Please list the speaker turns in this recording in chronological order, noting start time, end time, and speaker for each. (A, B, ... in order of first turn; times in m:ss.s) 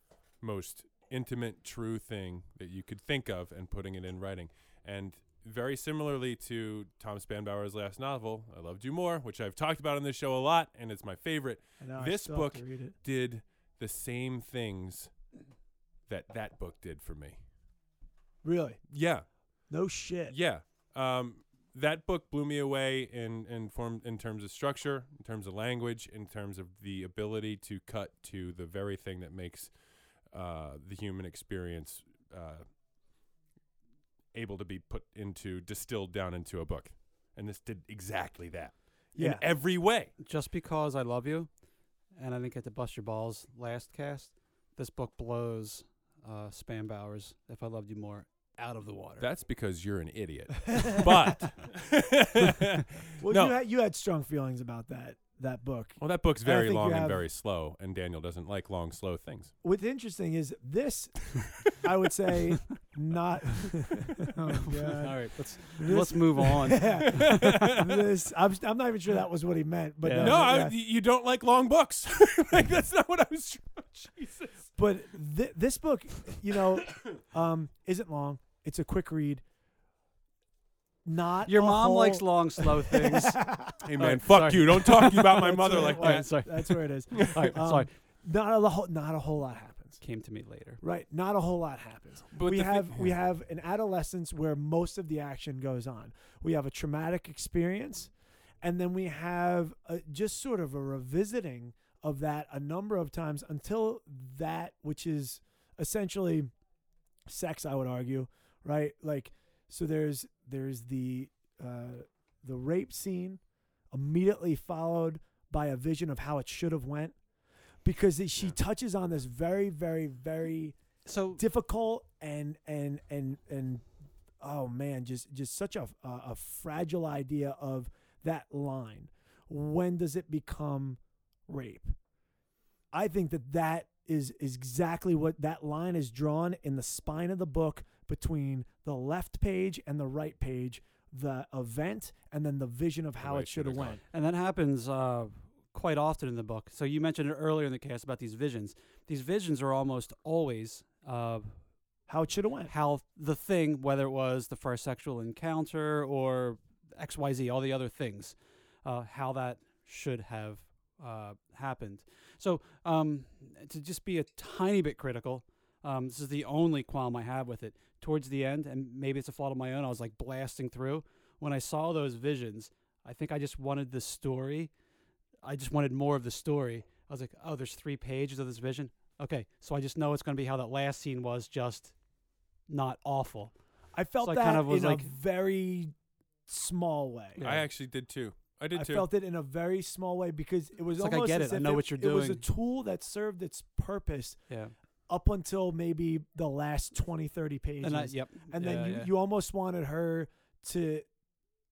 0:00.4-0:15.1 A
0:11.8-0:13.0 B
0:16.1-0:17.4 A
0:18.4-0:18.8 B
0:18.9-0:19.3 A
0:19.7-0:20.4 B
0:20.3-0:29.7 A
0:30.3-0:32.6 A
0:34.3-0:40.1 A
0:39.2-0:39.4 B
0:40.2-0:41.5 C
0:42.2-0:49.3 C
0:49.2-0:53.6 A
0:53.2-0:57.2 B
0:56.0-0:59.5 A
0:59.6-1:10.8 B
1:04.7-1:07.7 C
1:07.3-1:07.8 A
1:10.0-1:10.5 C
1:10.2-1:14.7 A
1:14.8-1:19.4 B
1:21.0-1:23.8 B
1:21.5-1:27.9 C
1:23.8-1:26.3 A
1:25.1-1:30.0 B
1:30.0-1:30.8 C
1:30.8-1:38.1 B
1:32.3-1:33.2 A
1:38.6-1:46.5 B
1:47.3-1:53.4 B
1:53.9-1:57.2 B
1:57.8-2:00.8 B
2:01.1-2:01.4 C
2:01.4-2:03.9 B
2:04.4-2:12.0 B
2:12.9-2:24.0 B
2:23.2-2:24.0 A
2:24.1-2:31.6 C
2:32.1-2:32.7 B
2:32.7-2:54.7 C
2:55.4-3:02.0 C
3:02.7-3:03.5 C
3:03.9-3:05.9 B
3:04.2-3:05.1 C
3:06.5-3:07.4 B
3:07.4-3:07.7 C
3:07.4-3:09.1 A
3:08.7-3:14.4 B
3:11.0-3:12.4 C
3:14.5-3:14.7 C
3:15.1-3:21.1 B
3:17.8-3:19.1 C